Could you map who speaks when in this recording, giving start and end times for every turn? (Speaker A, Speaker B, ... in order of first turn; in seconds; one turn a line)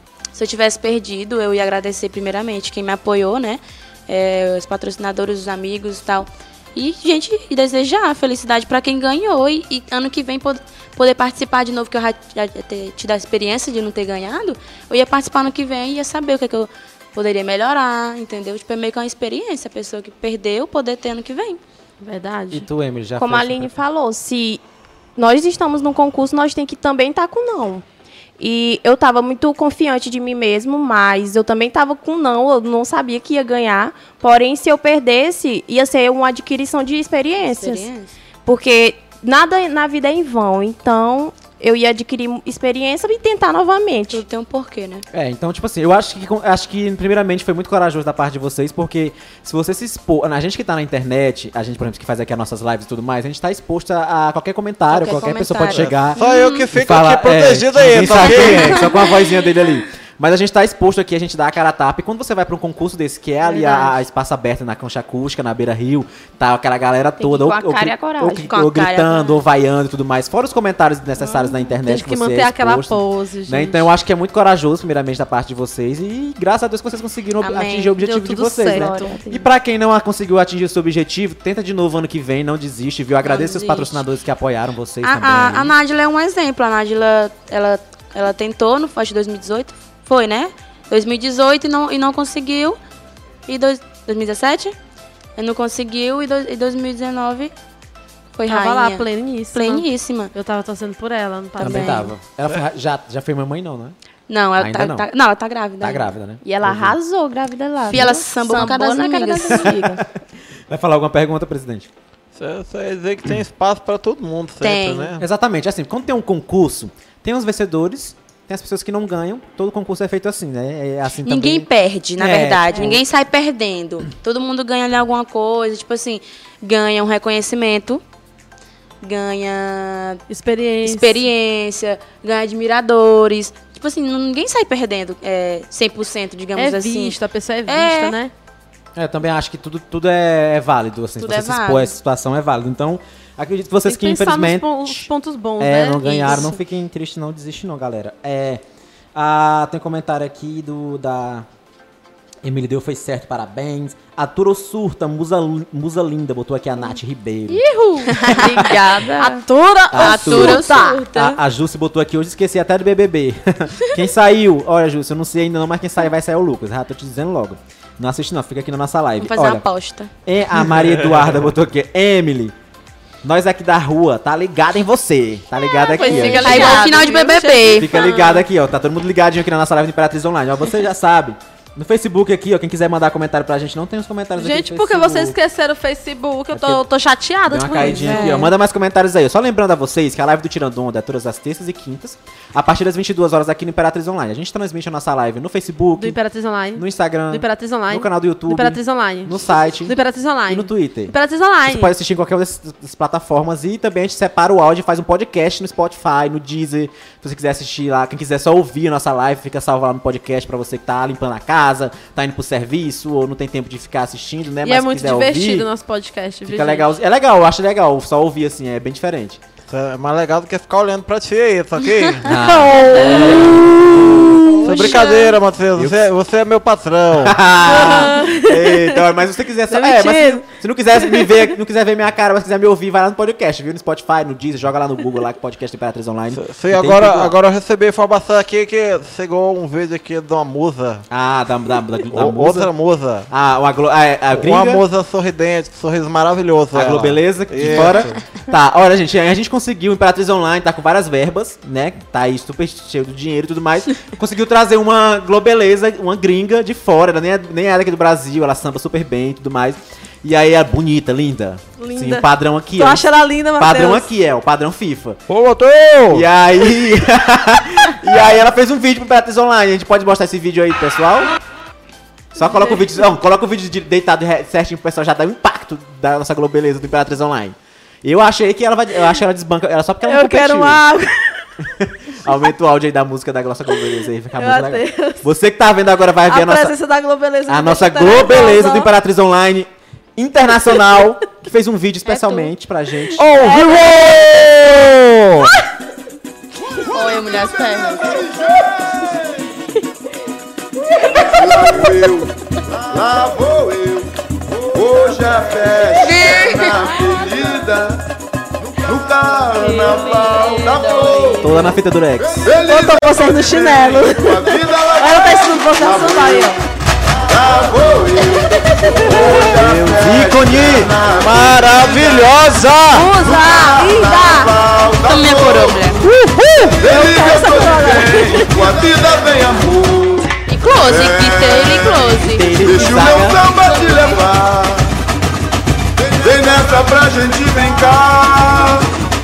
Speaker A: 0.3-21.6
Speaker B: 22.0-22.7
Speaker C: 22.5-23.7
Speaker D: 23.2-24.6
Speaker D: 25.2-27.9
Speaker D: 28.4-37.9
Speaker A: 37.5-38.1
Speaker D: 38.5-44.2
Speaker A: 44.1-45.0
Speaker C: 45.1-56.2
Speaker A: 54.9-56.7
Speaker E: 55.7-58.8
Speaker C: 56.7-85.8
Speaker A: 58.1-59.2
Speaker B: 63.4-64.0
Speaker D: 67.2-68.5
Speaker A: 68.5-69.4
Speaker B: 71.8-73.9
Speaker A: 77.4-78.0
Speaker B: 78.0-79.1
Speaker D: 78.7-79.5
Speaker A: 83.2-84.0
Speaker A: 85.0-92.8
Speaker A: 93.5-94.8
Speaker A: 95.4-97.5
Speaker A: 98.3-100.3
Speaker B: 98.5-102.1
Speaker A: 101.6-102.1
Speaker C: 101.6-104.0
Speaker A: 104.3-106.1
Speaker C: 104.6-105.1
Speaker C: 105.8-107.0
Speaker D: 106.4-110.0
Speaker A: 107.9-110.0
Speaker C: 110.7-111.9
Speaker E: 112.3-115.2
Speaker A: 114.6-115.2
Speaker C: 115.2-123.0
Speaker A: 121.2-128.0
Speaker A: 129.0-130.2
Speaker B: 130.3-131.3
Speaker A: 130.8-138.2
Speaker B: 136.6-138.3
Speaker C: 139.0-148.6
Speaker A: 141.2-141.9
Speaker B: 143.9-146.5
Speaker A: 146.2-146.6
Speaker C: 149.2-151.5
Speaker C: 152.4-157.6
Speaker B: 157.5-158.3
Speaker A: 158.1-158.9
Speaker D: 158.2-159.5
Speaker B: 159.2-161.0
Speaker C: 159.9-169.7
Speaker A: 159.9-161.4
Speaker A: 169.2-170.1
Speaker C: 170.2-172.6
Speaker E: 170.6-171.5
Speaker C: 173.2-176.9
Speaker B: 175.8-178.4
Speaker D: 175.9-177.0
Speaker A: 176.1-177.9
Speaker C: 177.7-185.4
Speaker B: 184.4-188.5
Speaker C: 186.5-186.8
Speaker C: 187.5-196.2
Speaker A: 187.8-188.5
Speaker B: 196.0-201.9
Speaker C: 196.8-215.7
Speaker B: 214.6-217.0
Speaker C: 216.5-219.4
Speaker E: 219.7-227.4
Speaker C: 222.2-223.5
Speaker B: 223.0-223.3
Speaker A: 224.6-225.3
Speaker B: 224.7-225.1
Speaker C: 225.8-226.1
Speaker C: 227.2-237.4
Speaker B: 227.6-229.1
Speaker B: 229.7-231.5
Speaker E: 236.3-241.0
Speaker C: 241.1-242.7
Speaker E: 242.1-243.3
Speaker C: 243.3-244.8
Speaker E: 244.3-248.2
Speaker C: 246.7-265.2
Speaker B: 261.8-264.1
Speaker E: 265.3-266.3
Speaker C: 266.1-271.3
Speaker C: 272.4-280.8
Speaker B: 272.5-272.8
Speaker B: 280.0-281.5
Speaker C: 281.6-286.8
Speaker B: 284.4-285.3
Speaker B: 286.3-288.9
Speaker C: 287.5-293.3
Speaker A: 292.1-292.5
Speaker E: 293.2-295.6
Speaker B: 293.3-294.5
Speaker A: 296.9-298.2
Speaker F: 296.9-299.6
Speaker A: 301.0-301.4
Speaker F: 301.3-304.1
Speaker F: 304.7-308.0
Speaker A: 306.0-306.9
Speaker F: 308.6-316.6
Speaker C: 311.4-312.5
Speaker B: 312.6-316.6
Speaker F: 317.3-322.4
Speaker B: 318.3-319.5
Speaker C: 319.5-320.9
Speaker E: 321.1-323.1
Speaker B: 322.9-324.5
Speaker F: 323.1-325.9
Speaker A: 325.0-326.0
Speaker E: 326.0-326.8
Speaker F: 326.6-334.9
Speaker B: 326.7-328.8
Speaker A: 330.5-334.2
Speaker C: 332.3-333.4
Speaker F: 336.0-338.9